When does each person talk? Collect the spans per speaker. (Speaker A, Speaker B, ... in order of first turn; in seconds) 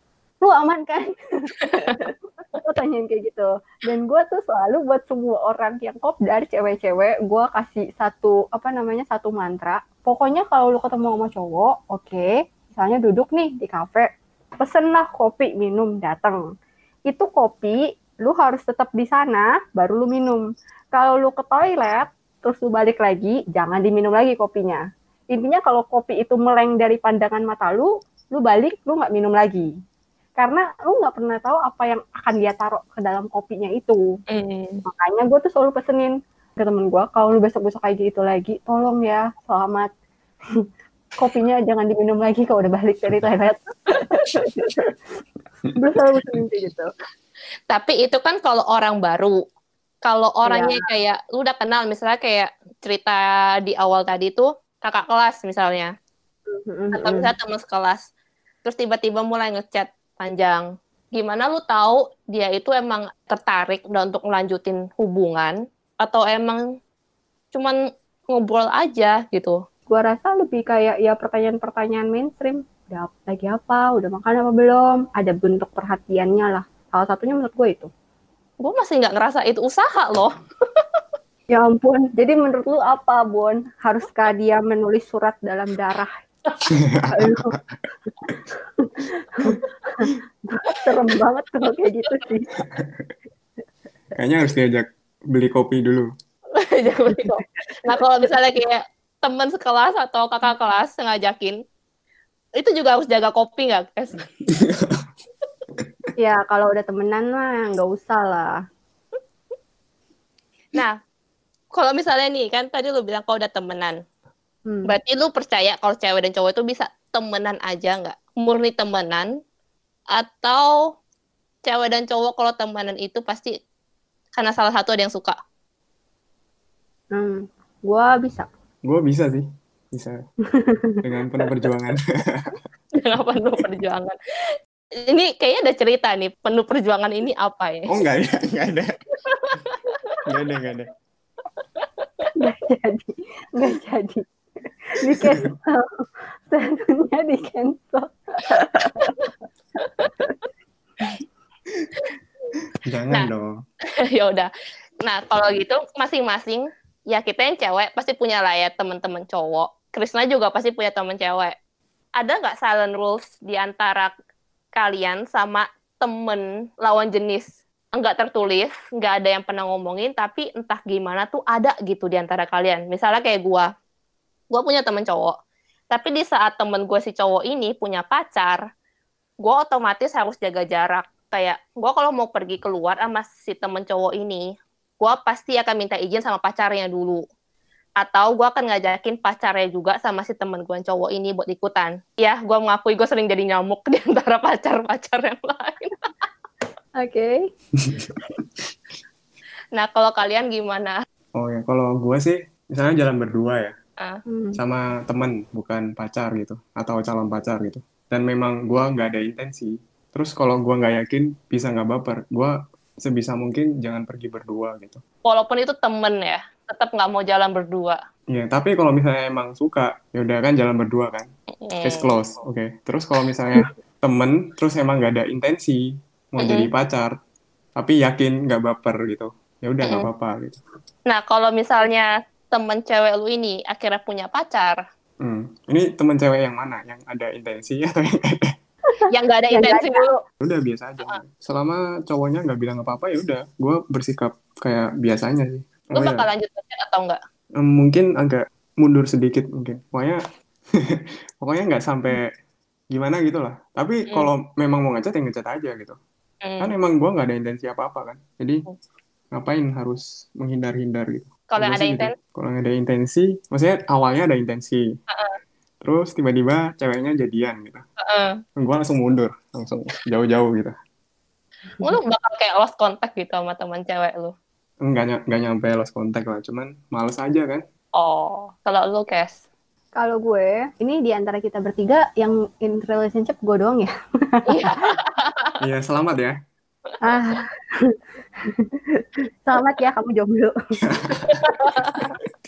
Speaker A: 0.4-16.4, 17.1-29.7, 30.4-34.0, 34.9-39.9, 41.2-44.9, 45.8-46.9, 50.5-50.8, 56.5-57.3, 69.9-77.9, 81.5-86.2, 87.1-87.5, 88.8-92.5, 106.2-108.6, 114.7-115.0, 127.1-128.5, 130.5-131.0, 142.3-144.2, 144.9-149.3, 197.0-197.4, 204.3-204.6, 238.9-240.1, 280.0-284.9, 287.0-287.9, 289.0-290.5
Speaker B: 1.8-2.1, 34.3-34.8, 47.7-49.4, 50.0-55.9, 56.9-58.1, 58.6-66.6, 68.3-69.6, 78.6-81.0, 96.6-101.6, 102.6-104.2, 111.7-114.0, 114.9-119.3, 120.1-120.8, 121.7-123.5, 124.4-125.4, 133.0-134.2, 135.0-137.9, 139.4-140.1, 141.8-142.1, 149.0-149.3, 154.0-154.5, 155.0-161.6, 162.2-164.1, 164.8-173.7, 174.5-175.4, 175.9-178.6, 179.4-184.4, 185.0-187.2, 188.0-196.1, 199.7-200.9, 215.2-218.0, 221.6-222.1, 226.4-226.7, 231.1-234.8, 239.1-240.2, 245.9-247.2, 256.4-256.7, 261.5-262.1, 265.1-265.4, 268.0-268.4, 271.8-274.3, 277.9-279.4, 284.5-285.6, 291.4-292.1
Speaker C: 86.7-87.8, 92.7-93.1, 94.2-96.1, 104.5-105.1, 105.8-106.1, 128.8-130.2, 131.0-132.6, 137.9-138.9, 140.2-140.9, 145.2-145.5, 152.9-153.6, 197.8-198.7, 201.4-203.8, 204.6-215.0, 218.3-221.3, 221.8-227.2, 227.8-230.6, 235.2-238.5, 240.4-246.3, 247.6-250.2, 250.9-252.3, 252.9-256.0, 256.6-258.6, 259.3-264.9, 265.8-267.8, 268.6-270.8, 274.8-277.6, 285.6-286.4, 290.8-291.4